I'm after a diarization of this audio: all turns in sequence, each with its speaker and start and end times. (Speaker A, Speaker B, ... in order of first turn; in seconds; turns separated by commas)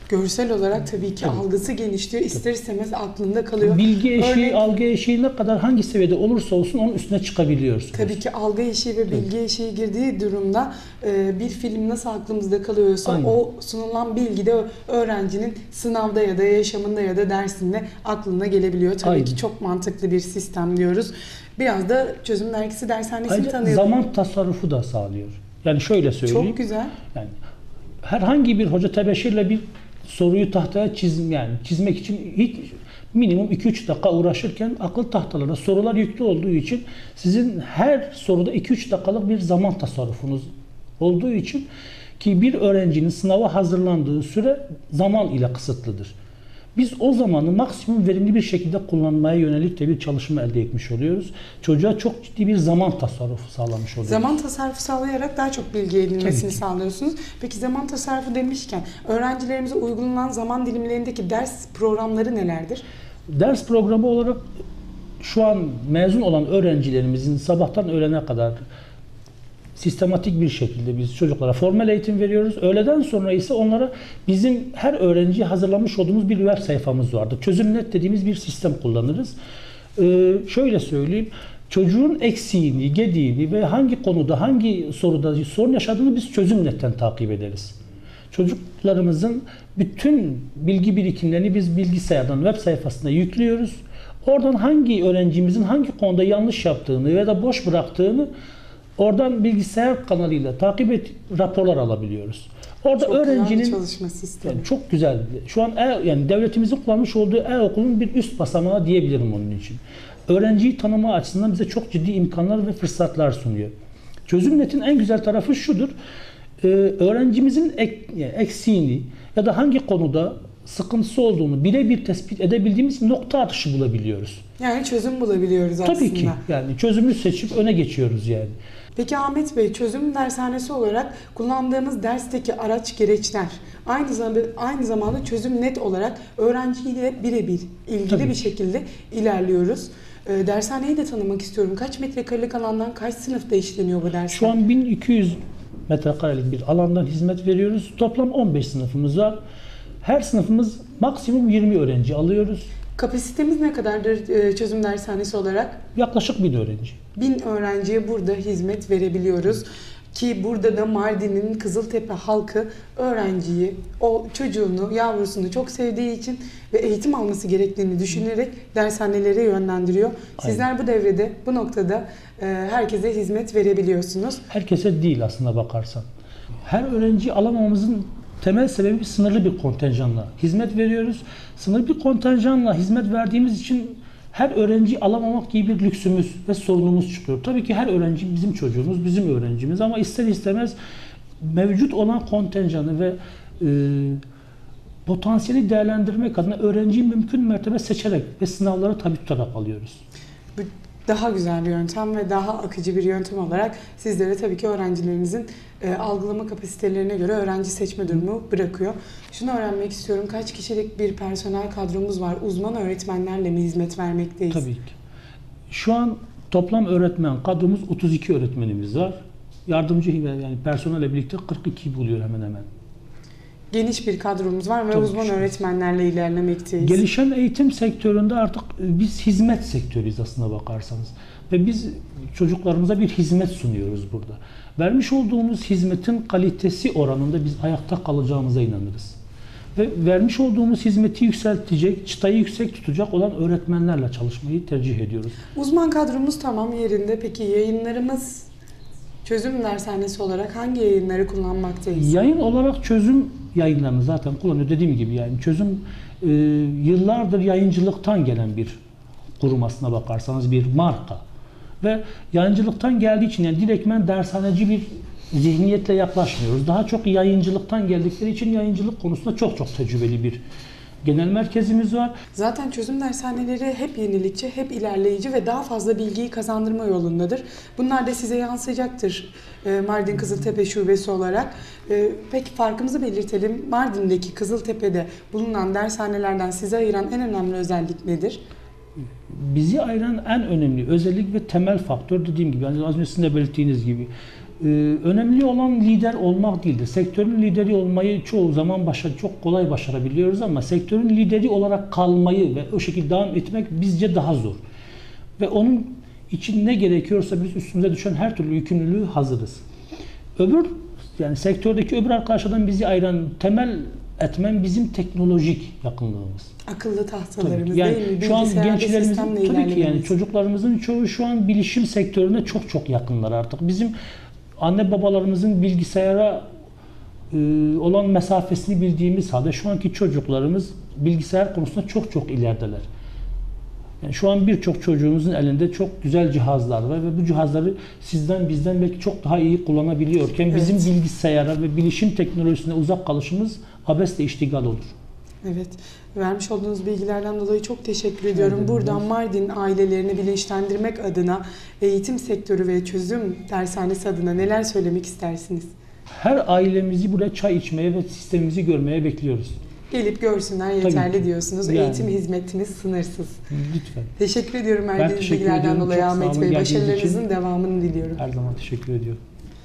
Speaker A: 0.1-4.7, Speaker B: 3.6-8.2, Speaker A: 7.9-23.9, Speaker B: 13.1-13.4, Speaker B: 19.0-19.4, Speaker B: 23.3-26.6, Speaker A: 26.3-27.0, Speaker B: 28.0-40.5, Speaker B: 41.0-41.7, Speaker B: 42.2-46.1, Speaker B: 46.8-54.3, Speaker A: 54.0-62.8, Speaker B: 56.2-56.5, Speaker B: 63.3-64.4, Speaker B: 65.2-68.6, Speaker B: 69.8-79.3, Speaker B: 80.0-87.8, Speaker B: 88.3-98.3, Speaker B: 99.0-103.8, Speaker A: 103.0-104.7, Speaker B: 104.4-113.7, Speaker B: 114.3-115.9, Speaker B: 116.6-124.4, Speaker A: 124.6-126.4, Speaker B: 125.8-128.6, Speaker A: 129.0-144.6, Speaker B: 138.1-138.4, Speaker B: 144.3-145.4, Speaker B: 145.9-149.4, Speaker B: 150.0-152.7, Speaker A: 153.0-155.8, Speaker B: 155.9-157.0, Speaker A: 157.2-174.4, Speaker B: 174.5-176.1, Speaker B: 176.7-190.8, Speaker B: 191.4-194.2, Speaker B: 195.1-200.0, Speaker A: 200.6-214.7, Speaker B: 214.5-214.9, Speaker B: 215.7-222.7, Speaker A: 223.7-227.0, Speaker B: 224.9-225.5, Speaker B: 226.8-239.2, Speaker B: 239.8-245.4, Speaker A: 245.5-248.5, Speaker A: 249.2-252.2, Speaker B: 252.0-258.8, Speaker B: 259.4-261.2, Speaker B: 261.8-270.4, Speaker B: 271.0-272.1, Speaker A: 272.3-288.4, Speaker B: 289.3-304.6, Speaker B: 305.4-309.6, Speaker B: 310.4-316.5, Speaker A: 316.7-320.1, Speaker B: 317.4-323.9, Speaker B: 324.6-326.4, Speaker B: 327.3-332.9, Speaker B: 334.0-344.9, Speaker A: 340.5-340.9, Speaker A: 345.4-355.7, Speaker B: 348.3-349.0, Speaker B: 356.1-359.6, Speaker A: 359.9-363.4, Speaker B: 360.8-362.2, Speaker B: 363.5-364.1, Speaker A: 364.2-368.2, Speaker B: 365.0-367.2, Speaker B: 368.2-369.2